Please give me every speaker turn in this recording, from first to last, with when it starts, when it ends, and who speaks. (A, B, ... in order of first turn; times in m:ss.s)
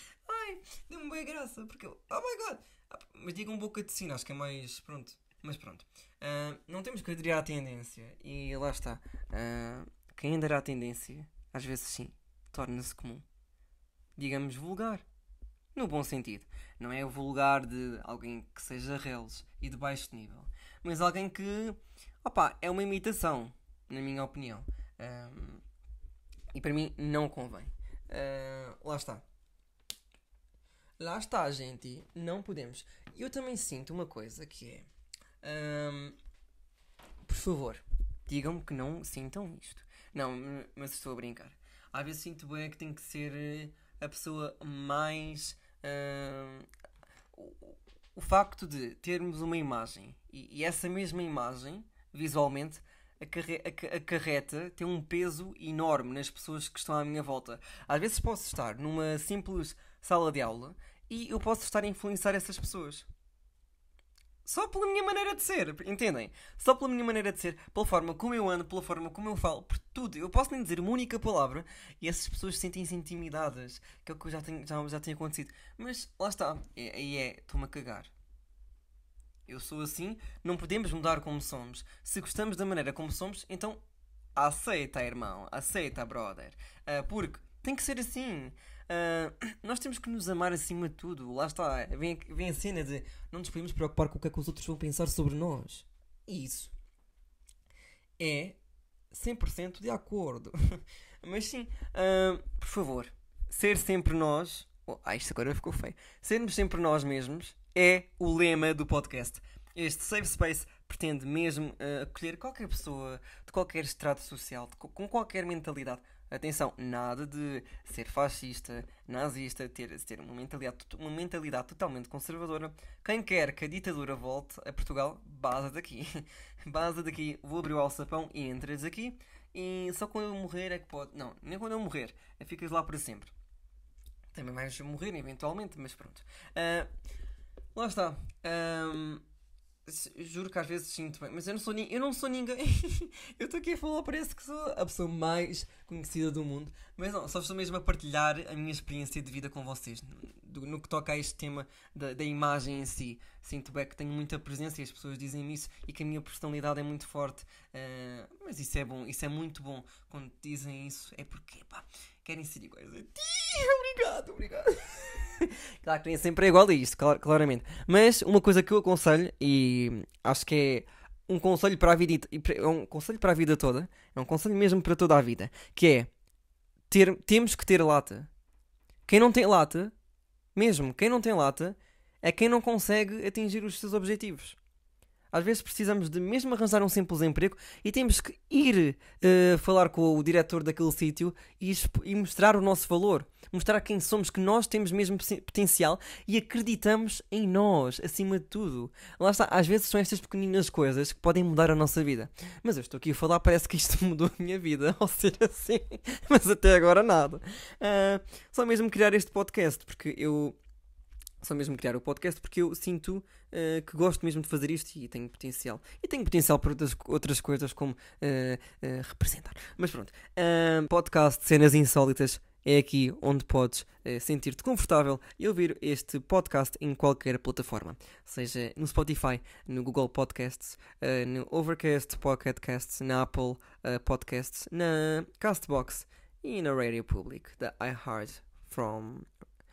0:00.3-0:13.2 A
0:14.2-0:15.0 A
0:15.8-0:25.6 A
0:26.5-0:29.2 A
0:31.0-0:34.9 A
0:35.4-0:36.2 A
0:37.3-0:46.7 A
0:47.4-1:03.1 A
1:04.4-1:18.1 A
1:19.5-1:23.8 A
1:24.4-1:36.7 A
1:38.2-1:38.6 A
1:39.1-2:13.3 A
2:14.3-2:16.9 A
2:17.8-2:19.2 A
2:19.9-2:56.1 A
2:56.9-2:58.3 A
2:59.1-2:59.9 A
3:00.6-3:04.6 A
3:05.3-3:30.6 A
3:31.4-3:59.3 A